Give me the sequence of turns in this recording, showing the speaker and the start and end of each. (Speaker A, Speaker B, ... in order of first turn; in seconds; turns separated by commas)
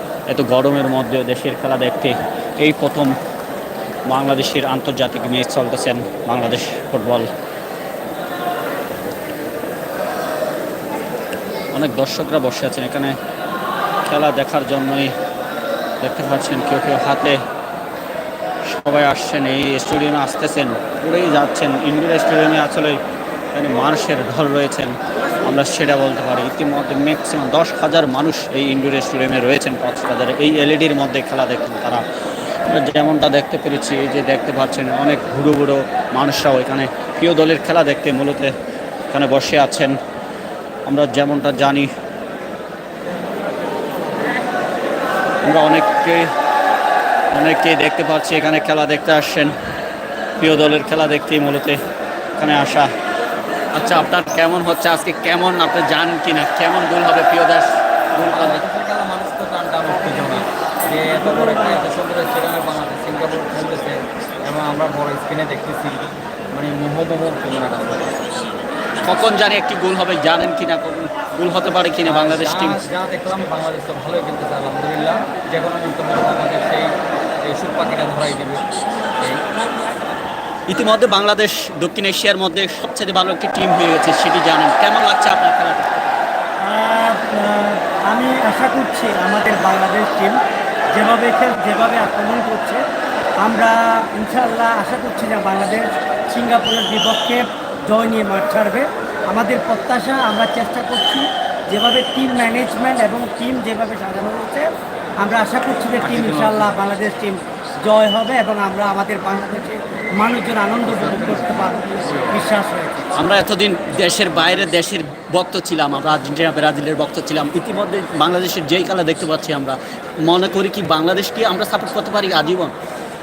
Speaker A: 0.3-3.1, Speaker A: 4.1-7.3, Speaker A: 11.7-13.2, Speaker A: 14.1-15.1, Speaker A: 16.0-17.4, Speaker A: 18.7-23.0, Speaker A: 23.5-32.0, Speaker A: 32.7-38.5, Speaker A: 39.1-40.0, Speaker A: 40.9-41.9, Speaker A: 45.4-46.3, Speaker A: 47.3-49.5, Speaker A: 50.4-51.8, Speaker A: 52.4-52.9, Speaker A: 53.7-58.6, Speaker B: 58.2-68.2, Speaker A: 69.0-72.8, Speaker B: 72.0-79.4, Speaker A: 80.7-86.2, Speaker C: 86.6-90.4, Speaker C: 91.0-92.8, Speaker C: 93.4-104.7, Speaker C: 105.2-113.1, Speaker A: 106.0-106.7, Speaker B: 110.9-111.4, Speaker A: 110.9-111.4, Speaker A: 113.2-122.7